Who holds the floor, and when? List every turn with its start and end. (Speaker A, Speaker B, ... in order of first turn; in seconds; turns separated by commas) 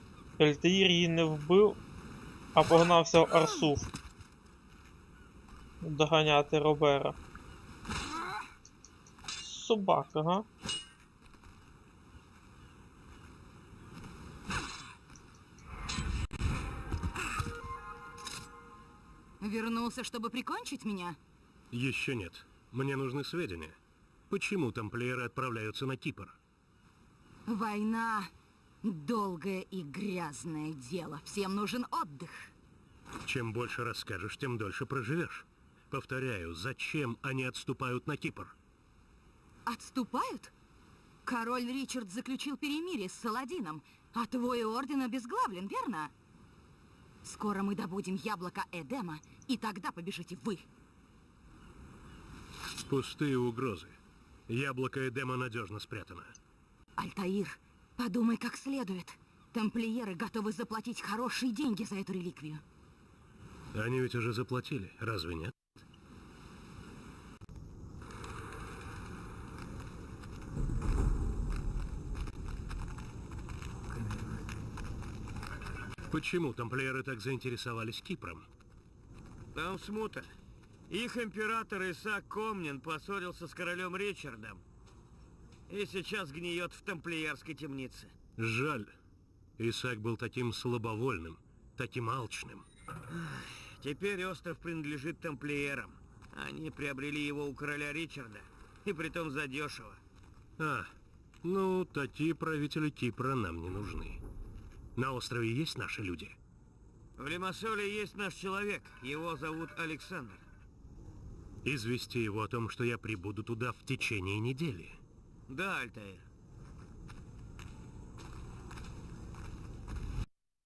Speaker A: 0.4-1.8, Speaker A: 2.5-3.9, Speaker A: 5.8-7.2, Speaker A: 9.4-10.4, Speaker B: 19.4-21.2, Speaker C: 21.7-23.8, Speaker C: 24.3-26.4, Speaker B: 27.4-28.3, Speaker B: 28.8-32.5, Speaker C: 33.2-38.5, Speaker B: 39.6-40.5, Speaker B: 41.2-46.1, Speaker B: 47.2-50.6, Speaker C: 52.9-54.0, Speaker C: 54.5-56.4, Speaker B: 57.0-62.6, Speaker C: 63.7-65.5, Speaker C: 76.1-78.5, Speaker D: 79.5-80.3, Speaker D: 80.9-84.6, Speaker D: 85.7-88.1, Speaker C: 88.4-88.9, Speaker C: 89.6-92.7, Speaker D: 93.1-100.0, Speaker C: 100.6-100.9, Speaker C: 101.4-104.2, Speaker C: 105.0-106.3, Speaker D: 107.2-110.4, Speaker C: 111.6-115.0, Speaker D: 115.5-116.3